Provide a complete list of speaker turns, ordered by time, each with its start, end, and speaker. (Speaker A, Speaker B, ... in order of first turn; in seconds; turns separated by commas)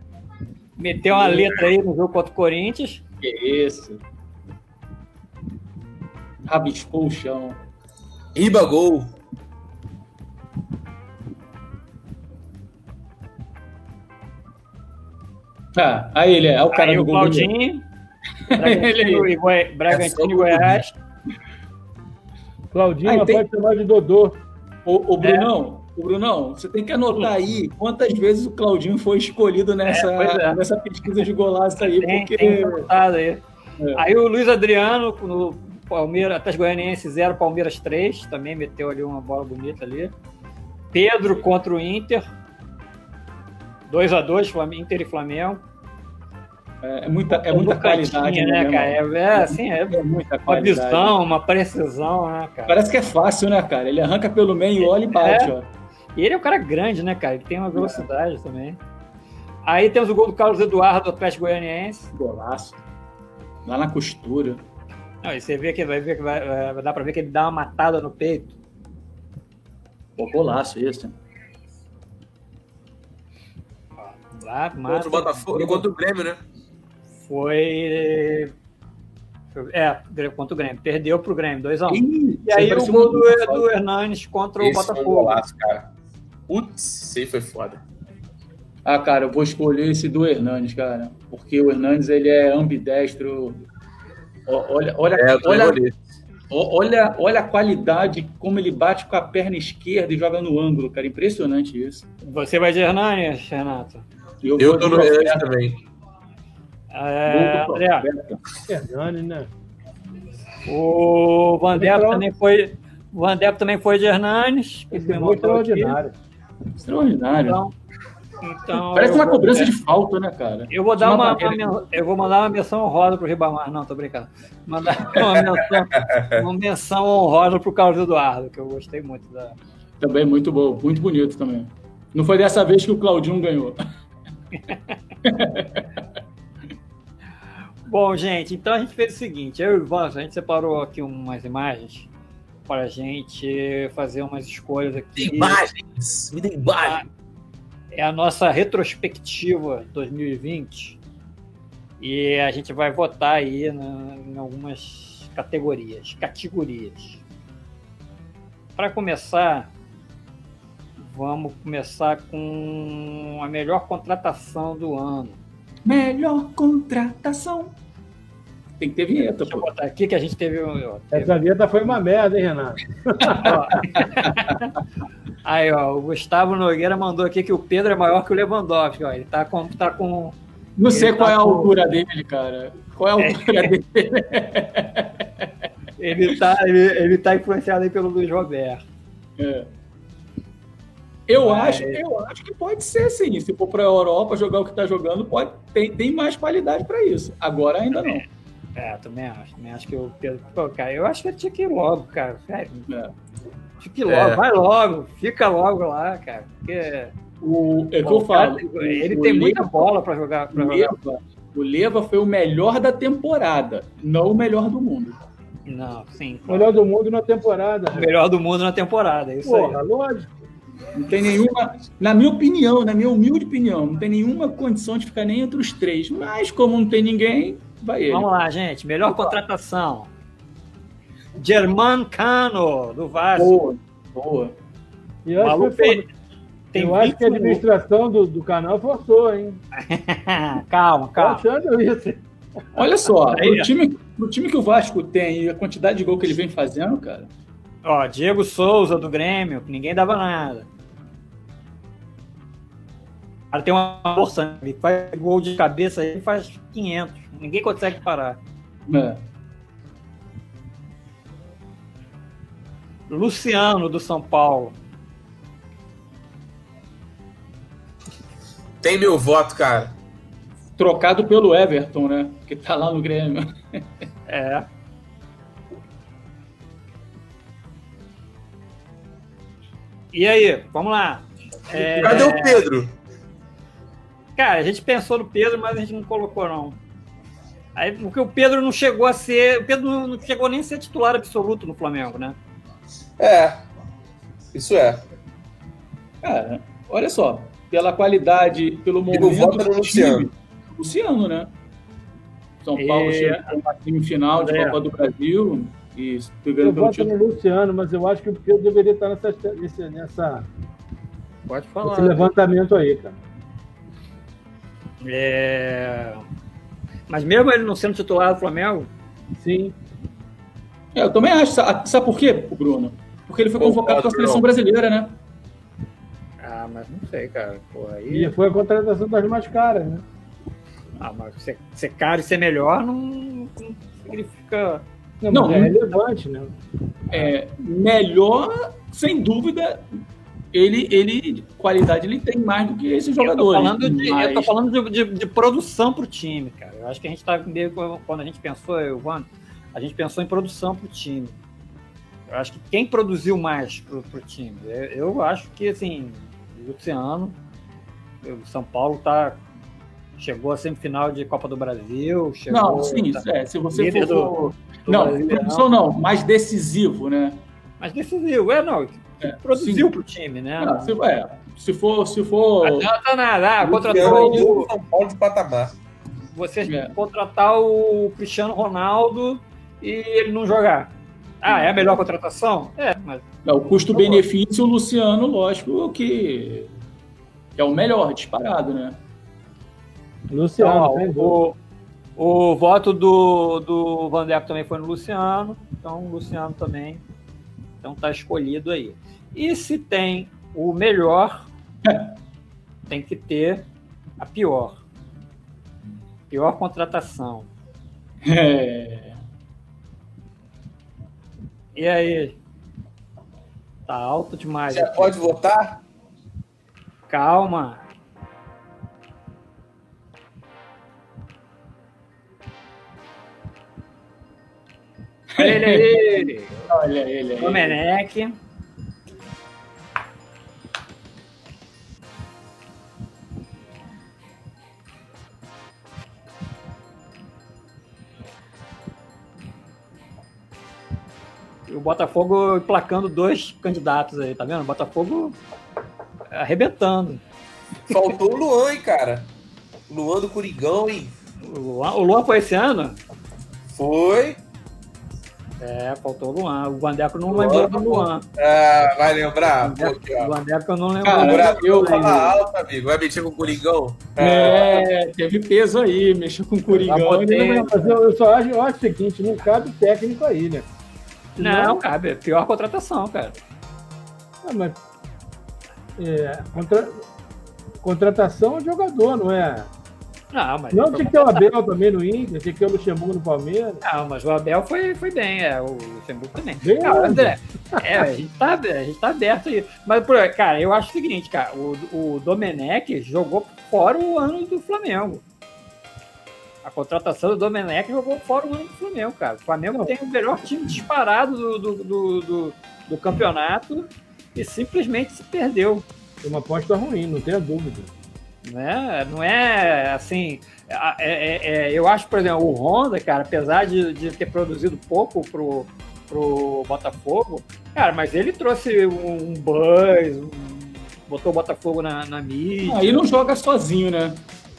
Speaker A: 0.8-3.0, Speaker B: 1.1-1.6, Speaker B: 3.2-4.0, Speaker B: 6.5-7.6, Speaker C: 8.3-9.1, Speaker B: 15.8-17.5, Speaker A: 16.7-17.9, Speaker B: 18.5-19.3, Speaker A: 18.5-20.9, Speaker C: 19.9-20.8, Speaker D: 22.7-24.4, Speaker B: 23.0-23.4, Speaker B: 24.8-32.9, Speaker A: 25.2-25.5, Speaker A: 29.9-30.6, Speaker A: 32.0-33.4, Speaker A: 33.9-40.1, Speaker A: 40.9-42.2, Speaker A: 43.9-45.6, Speaker B: 46.8-51.1, Speaker A: 47.3-52.8, Speaker B: 52.7-55.7, Speaker A: 54.8-55.5, Speaker A: 56.1-58.8, Speaker B: 57.7-58.0, Speaker A: 59.6-62.1, Speaker B: 62.1-62.8, Speaker B: 63.6-64.6, Speaker A: 65.2-68.5, Speaker B: 70.2-71.1, Speaker A: 74.0-75.8, Speaker C: 74.8-76.4, Speaker A: 77.2-78.5, Speaker A: 79.5-85.4, Speaker B: 81.9-83.7, Speaker C: 84.6-85.9, Speaker C: 86.5-87.8, Speaker B: 88.8-93.7, Speaker B: 94.5-95.8, Speaker C: 95.1-95.9, Speaker B: 96.5-102.1, Speaker A: 102.2-104.0, Speaker B: 104.4-105.5, Speaker C: 104.6-105.8, Speaker A: 106.9-108.1, Speaker B: 107.3-108.4, Speaker D: 108.7-109.5, Speaker A: 110.7-116.0, Speaker D: 111.7-112.2, Speaker D: 114.9-116.1, Speaker B: 116.8-117.6, Speaker A: 117.5-117.7, Speaker A: 118.4-119.7, Speaker B: 118.9-121.7, Speaker A: 120.7-129.6, Speaker C: 125.1-126.5, Speaker B: 130.0-133.8, Speaker A: 134.5-135.0, Speaker B: 135.2-135.8, Speaker A: 137.8-142.1, Speaker A: 142.7-145.6, Speaker C: 145.2-147.0, Speaker A: 146.7-147.1, Speaker A: 147.9-151.0, Speaker A: 152.0-157.2, Speaker A: 158.8-159.7, Speaker A: 161.0-165.4, Speaker B: 165.8-167.7, Speaker B: 168.8-169.7, Speaker A: 169.2-171.3, Speaker D: 171.1-173.5, Speaker A: 173.2-174.7, Speaker B: 173.4-174.5, Speaker A: 175.4-180.4, Speaker B: 180.8-185.5, Speaker A: 180.9-181.7, Speaker A: 183.2-183.7, Speaker A: 186.0-188.8, Speaker B: 189.4-189.7, Speaker B: 191.3-198.2, Speaker A: 191.4-192.0, Speaker A: 198.8-202.9, Speaker B: 202.9-203.1, Speaker A: 203.8-207.1, Speaker C: 204.1-204.4, Speaker B: 207.4-210.0, Speaker A: 208.0-210.9, Speaker B: 210.5-215.2, Speaker A: 215.7-216.7, Speaker D: 216.5-218.1, Speaker A: 217.9-219.8, Speaker D: 219.4-220.3, Speaker B: 220.9-228.3, Speaker A: 228.1-230.1, Speaker B: 229.1-229.3, Speaker A: 231.4-233.6, Speaker B: 233.4-234.5, Speaker D: 235.2-236.1, Speaker A: 235.4-236.1, Speaker A: 236.7-237.6, Speaker D: 236.7-239.6, Speaker A: 239.7-241.4, Speaker D: 241.2-242.2, Speaker B: 242.8-247.3, Speaker A: 243.3-243.7, Speaker A: 247.8-250.7, Speaker A: 253.5-258.4, Speaker B: 258.9-259.2, Speaker A: 263.1-264.8, Speaker C: 268.8-269.9, Speaker B: 270.8-273.4, Speaker A: 274.3-274.7, Speaker A: 280.1-282.7, Speaker B: 281.7-282.4, Speaker C: 282.0-282.9, Speaker A: 284.4-286.8, Speaker A: 287.8-292.4, Speaker C: 293.2-293.6, Speaker C: 294.5-295.0, Speaker B: 296.2-301.5, Speaker C: 299.1-300.3, Speaker B: 302.6-307.1, Speaker A: 302.8-303.5, Speaker A: 304.4-304.8, Speaker D: 306.6-310.5, Speaker A: 311.5-312.3, Speaker D: 311.8-313.2, Speaker A: 315.0-316.2, Speaker A: 317.1-318.9, Speaker D: 319.3-319.8, Speaker B: 320.9-325.2, Speaker C: 323.6-324.4, Speaker A: 326.4-328.3, Speaker D: 328.1-330.0, Speaker A: 331.0-334.8, Speaker D: 335.2-336.5, Speaker B: 335.3-335.8, Speaker B: 337.1-339.9, Speaker B: 340.5-344.5, Speaker A: 343.2-351.3, Speaker A: 352.3-357.4, Speaker A: 358.2-359.4, Speaker A: 360.2-365.7, Speaker B: 362.5-367.4, Speaker A: 367.8-370.9, Speaker B: 369.2-369.9, Speaker B: 370.6-372.9, Speaker A: 372.6-374.7, Speaker C: 373.6-375.8, Speaker B: 373.9-374.5, Speaker A: 376.3-380.9, Speaker B: 376.7-376.9, Speaker A: 381.4-383.2, Speaker B: 381.4-382.0, Speaker B: 383.4-386.7, Speaker A: 383.9-384.2, Speaker B: 387.6-389.0, Speaker D: 390.3-391.4, Speaker A: 390.6-391.2, Speaker B: 390.6-391.5, Speaker A: 392.2-397.0, Speaker A: 397.8-401.5, Speaker B: 401.8-402.1, Speaker A: 402.9-403.7, Speaker A: 404.2-404.8, Speaker A: 406.3-407.5, Speaker B: 408.2-409.1, Speaker A: 411.7-412.4, Speaker A: 413.9-415.3, Speaker C: 414.7-415.8, Speaker A: 417.1-417.8, Speaker B: 425.3-427.8, Speaker A: 425.4-426.7, Speaker A: 427.4-428.4, Speaker A: 441.7-445.4, Speaker A: 446.3-447.2, Speaker C: 447.9-449.3, Speaker C: 449.9-451.1, Speaker A: 451.4-453.0, Speaker C: 453.7-454.4, Speaker A: 455.6-458.2, Speaker C: 457.3-460.3, Speaker A: 459.6-462.3, Speaker B: 461.0-462.1, Speaker C: 461.2-464.9, Speaker B: 464.2-467.9, Speaker A: 466.7-467.7, Speaker D: 467.4-470.7, Speaker D: 471.4-471.7, Speaker A: 471.4-473.4, Speaker D: 474.4-474.8, Speaker D: 476.0-477.0, Speaker D: 477.8-479.7, Speaker A: 480.3-481.5, Speaker D: 480.7-483.8, Speaker A: 483.8-495.2, Speaker D: 486.6-488.1, Speaker A: 496.6-505.9, Speaker D: 506.2-507.9, Speaker A: 508.4-523.0, Speaker B: 522.6-524.2